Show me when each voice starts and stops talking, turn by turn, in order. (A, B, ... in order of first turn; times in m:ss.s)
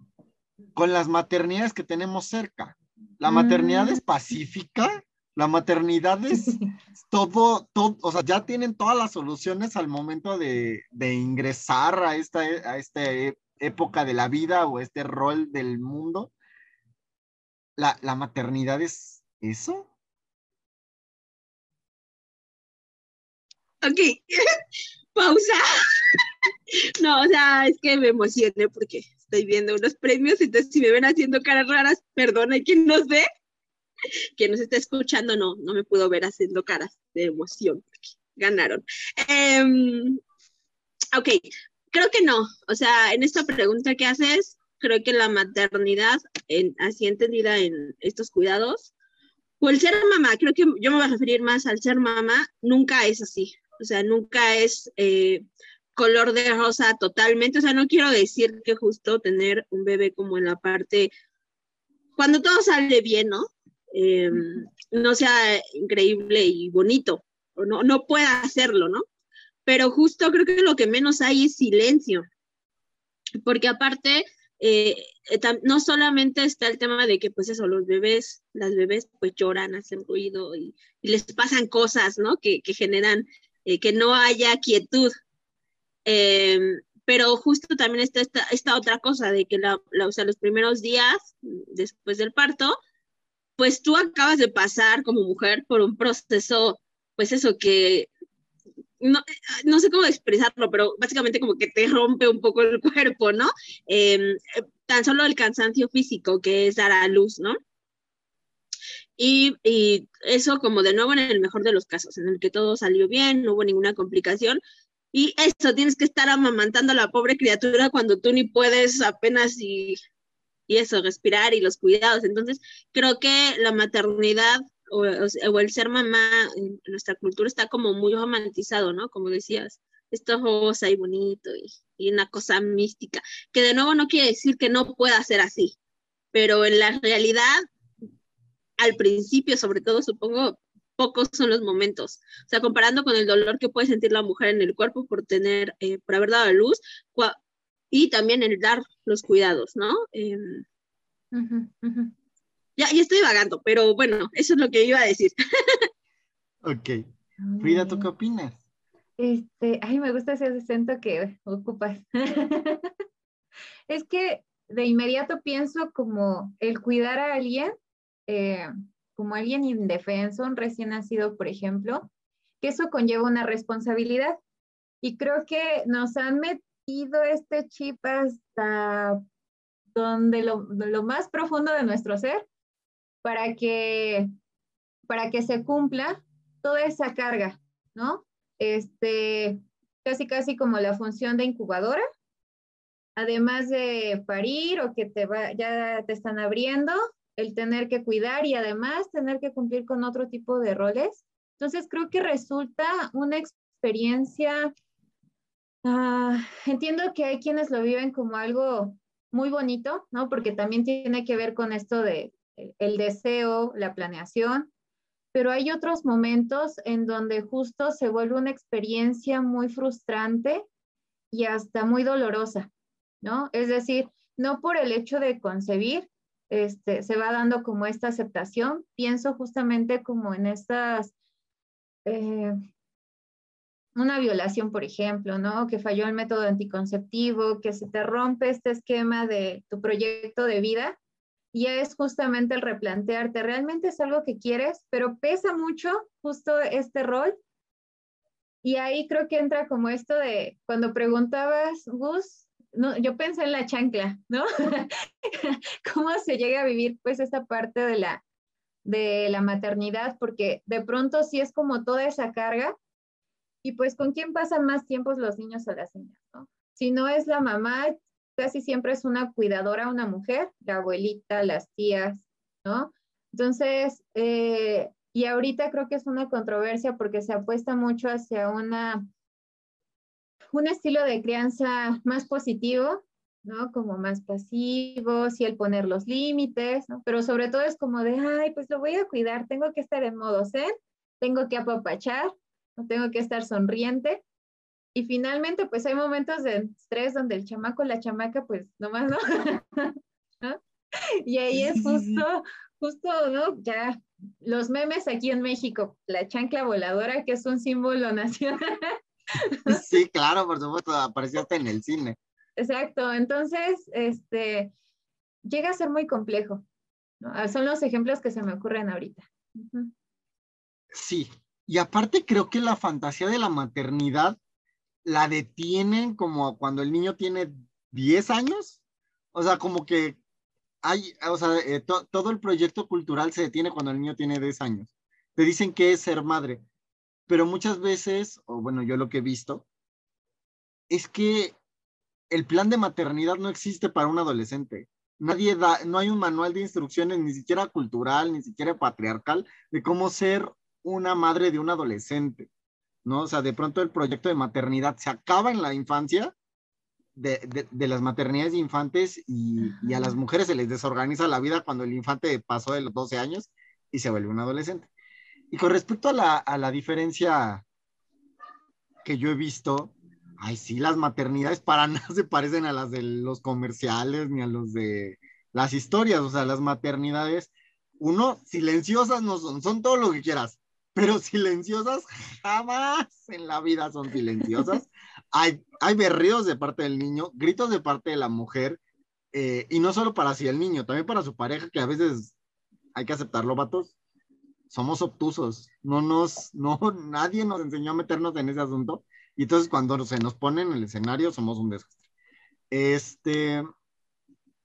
0:00.8-0:16.3 A
0:03.3-0:04.0 B
0:17.8-0:19.9 A
0:23.8-0:24.6 C
0:25.2-0:26.2 C
0:27.0-0:33.3 C
0:34.4-0:40.2 C
0:41.1-0:41.4 C
0:41.9-0:48.9 C
0:49.6-0:55.4 C
0:56.0-1:01.1 C
1:02.2-1:09.0 C
1:09.7-1:12.2 C
1:13.4-1:25.1 C
1:26.1-1:32.8 C
1:33.6-1:38.1 C
1:39.0-1:47.6 C
1:49.2-1:54.6 C
1:55.1-2:00.0 C
2:00.7-2:15.8 C
2:16.3-2:17.6 C
2:18.8-2:27.4 C
2:27.9-2:30.6 C
2:31.3-2:32.1 B
2:32.8-2:35.9 C
2:36.6-2:37.0 A
2:37.4-2:38.1 B
2:37.6-2:38.6 A
2:39.2-2:42.9 B
2:43.9-2:47.7 B
2:48.3-2:52.1 B
2:52.6-2:54.4 B
2:55.0-2:59.2 B
3:00.0-3:02.5 B
3:03.2-3:04.3 B
3:05.1-3:12.0 B
3:13.2-3:24.7 B
3:25.8-3:34.7 B
3:35.3-3:40.7 B
3:41.3-3:42.7 B
3:43.2-3:51.1 B
3:52.1-3:52.6 B
3:54.0-4:01.0 B
4:01.5-4:07.4 B
4:08.6-4:18.2 B
4:18.8-4:22.8 B
4:23.6-4:39.0 B
4:40.5-4:54.2 B
4:55.0-5:00.6 B
5:01.3-5:08.9 B
5:01.5-5:02.2 A
5:09.5-5:09.8 B
5:09.7-5:12.2 A
5:12.6-5:14.7 B
5:15.5-5:16.6 B
5:17.2-5:19.9 B
5:20.9-5:24.4 A
5:25.0-5:28.8 A
5:29.4-5:30.2 A
5:30.8-5:36.6 A
5:37.3-5:39.7 A
5:40.9-5:41.6 A
5:42.3-5:52.5 A
5:53.0-5:56.3 A
5:57.2-6:04.9 A
5:59.6-6:00.2 B
6:05.5-6:07.6 A
6:09.0-6:28.8 A
6:29.3-6:32.4 A
6:33.0-6:33.9 A
6:34.7-6:42.0 A
6:42.7-6:43.6 A